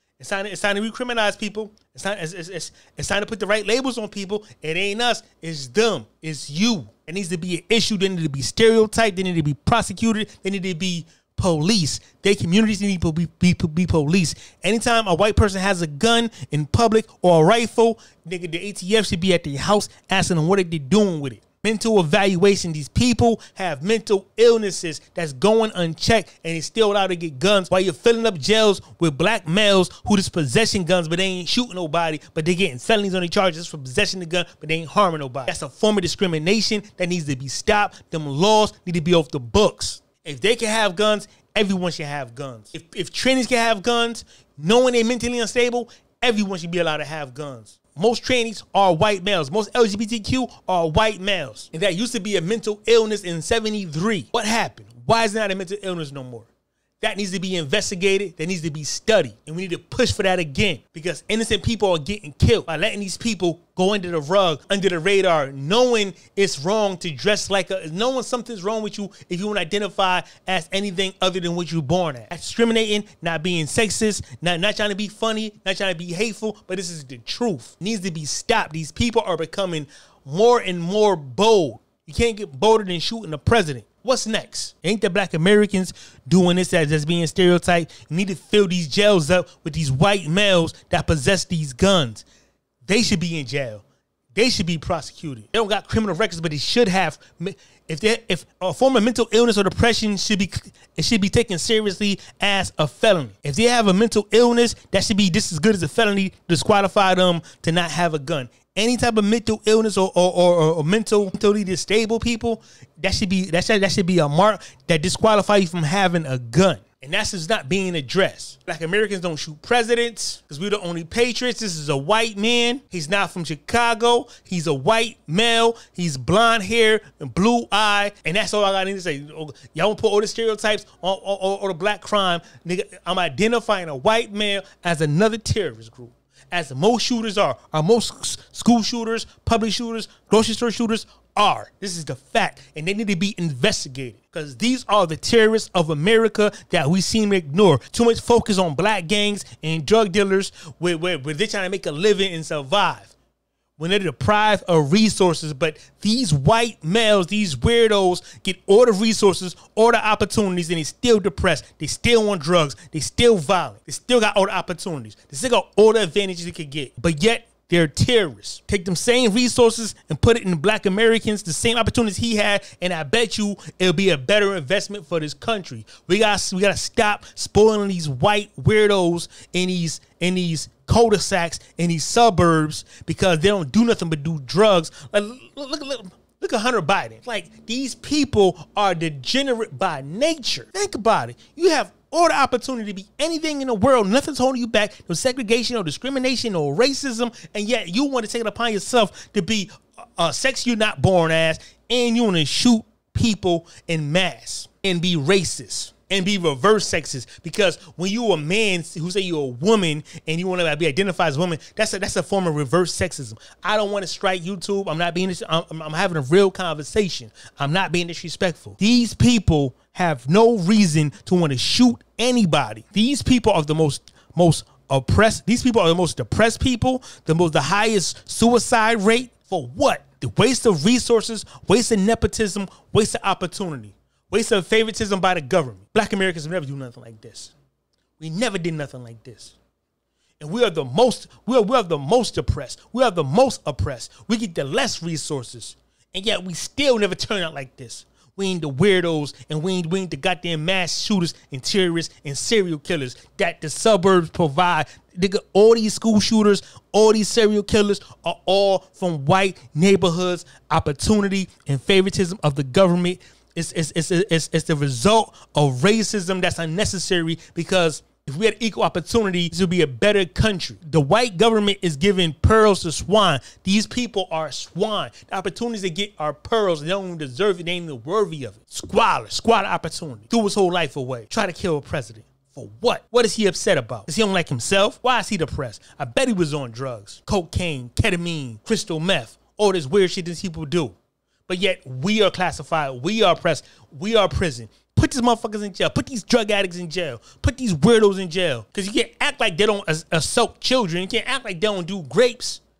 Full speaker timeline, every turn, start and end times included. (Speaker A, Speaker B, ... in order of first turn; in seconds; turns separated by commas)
Speaker A: 0.2-56.5, Speaker A: 57.0-92.2, Speaker A: 92.8-93.8, Speaker A: 94.3-153.1, Speaker A: 153.8-237.5, Speaker A: 238.2-239.6, Speaker A: 240.4-290.9, Speaker A: 291.5-302.6